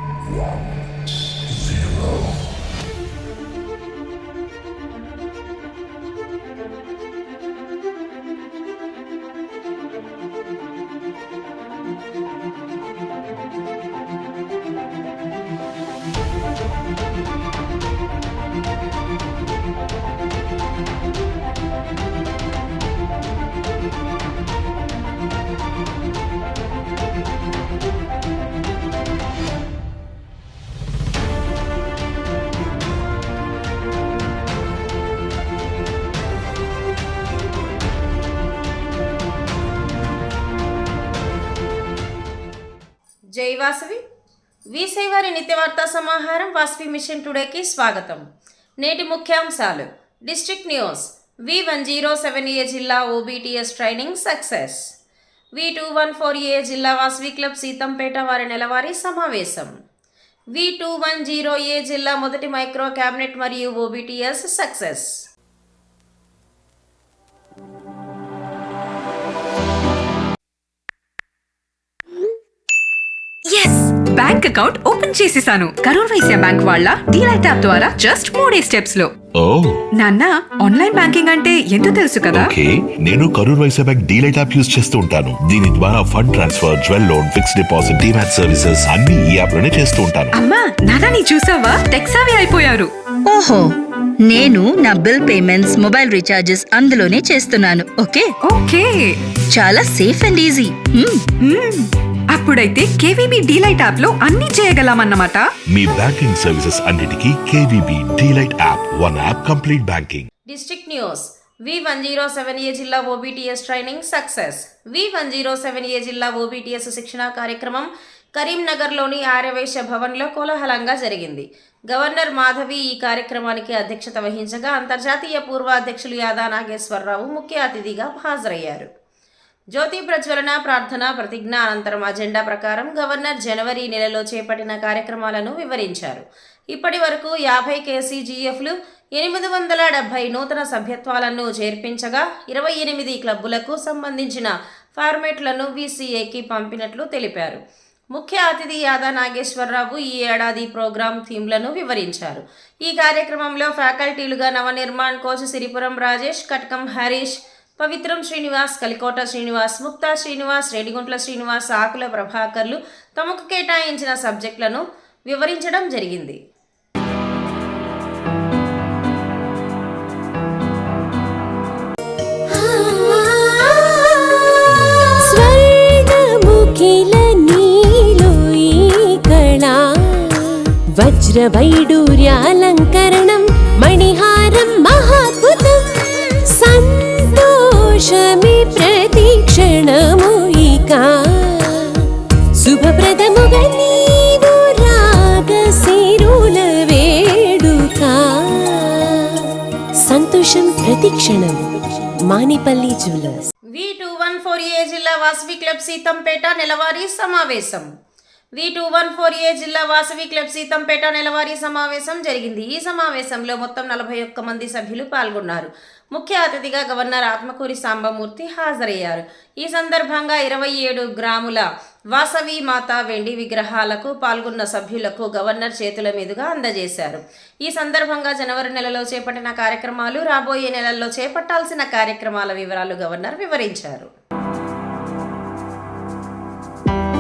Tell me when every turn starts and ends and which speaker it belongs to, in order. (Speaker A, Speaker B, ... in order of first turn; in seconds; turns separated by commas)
Speaker A: 0.2-2.3, Speaker B: 43.4-44.0, Speaker B: 44.7-48.2, Speaker B: 48.8-55.0, Speaker B: 55.5-59.7, Speaker B: 60.5-65.3, Speaker C: 73.5-79.1, Speaker A: 79.4-79.8, Speaker C: 80.0-82.5, Speaker A: 82.3-90.3, Speaker C: 90.3-92.9, Speaker D: 93.3-98.3, Speaker C: 98.5-99.2, Speaker D: 99.5-101.2, Speaker C: 101.4-105.5, Speaker A: 105.7-110.3, Speaker B: 110.5-128.9, Speaker B: 129.7-147.6, Speaker B: 148.1-166.4, Speaker E: 172.5-203.5, Speaker B: 203.7-207.9, Speaker B: 208.6-234.1